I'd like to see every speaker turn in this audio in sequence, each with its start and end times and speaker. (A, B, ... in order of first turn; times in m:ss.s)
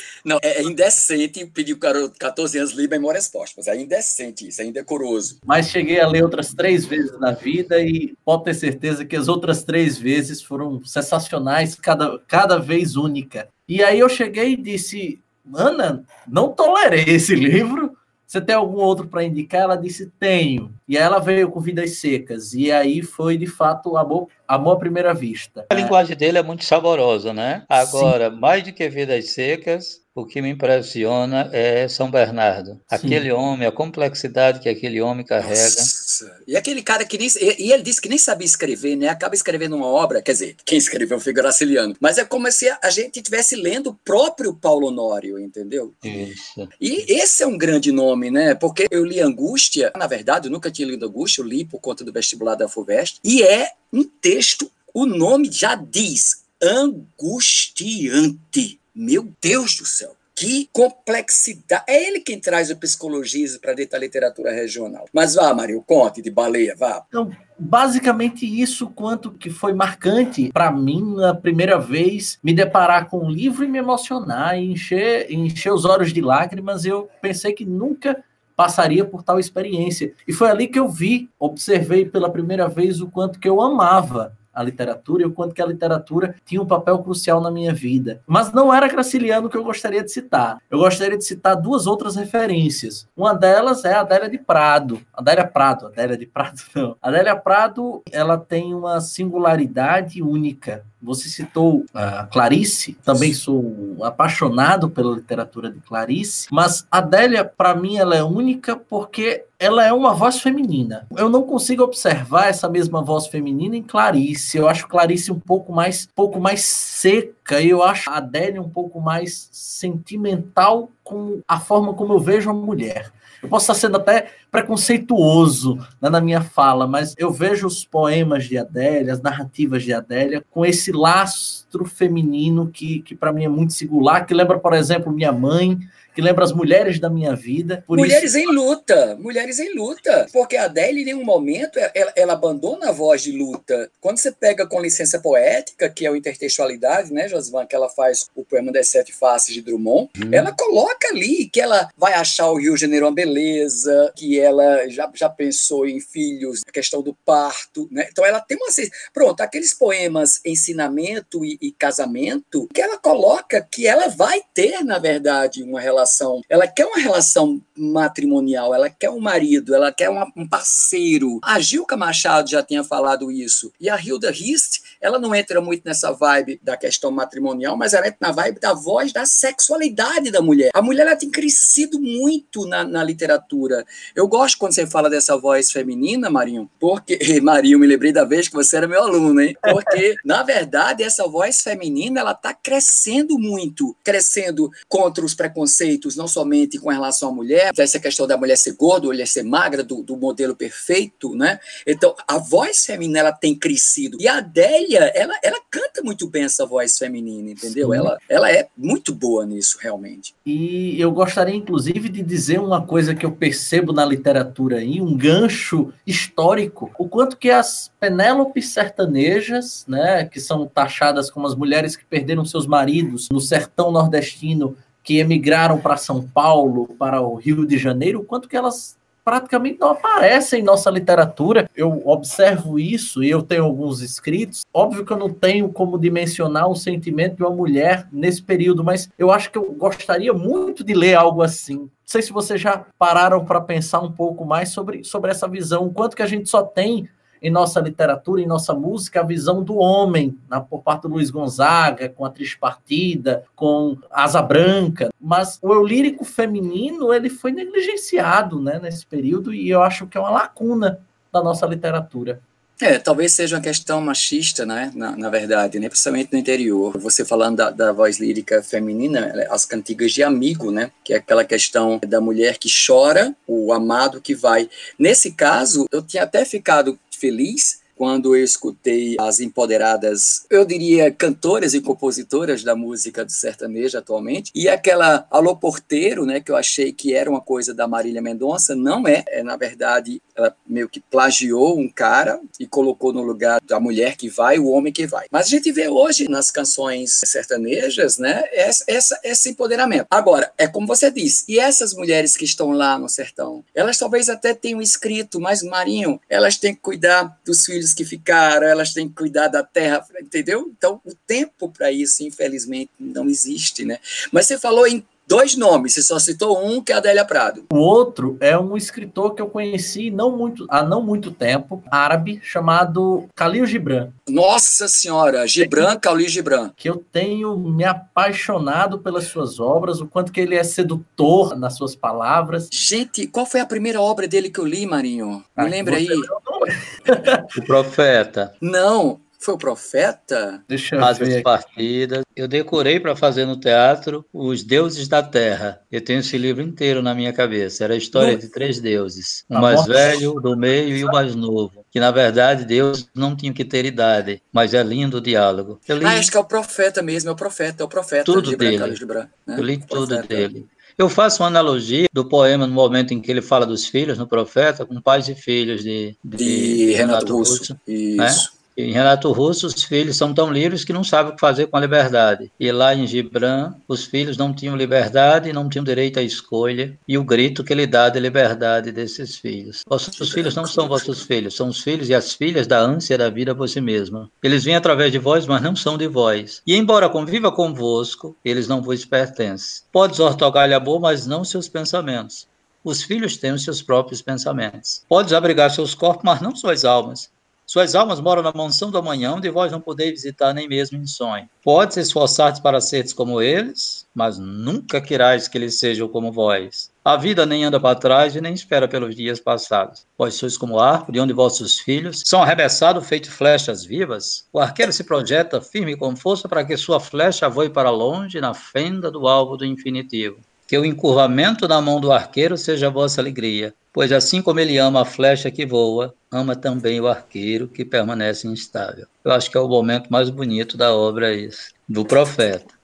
0:00.2-0:05.4 A
0:05.4-0:25.9 B
0:25.7-0:35.9 C
0:27.8-0:28.2 B
0:32.9-0:33.2 B
0:35.4-0:46.2 A
0:46.0-0:46.7 C
0:46.8-1:07.0 A
1:07.1-2:18.3 B
2:17.9-3:30.3 A
3:27.7-3:28.1 B
3:30.4-4:22.4 B
4:22.8-5:17.6 A
5:17.7-5:24.1 B
5:24.3-5:26.7 A
5:25.6-5:25.9 B
5:26.8-5:32.7 B
5:32.7-5:36.3 A
5:35.6-5:37.5 B
5:37.5-5:38.5 C
5:38.6-5:40.6 A
5:40.7-5:41.5 B
5:41.0-5:56.3 C
5:48.1-5:48.4 B
5:49.5-5:50.2 B
5:56.0-6:00.5 A
5:58.2-5:59.0 C
5:59.6-7:12.7 C
6:06.4-6:08.5 A
6:20.2-6:21.2 A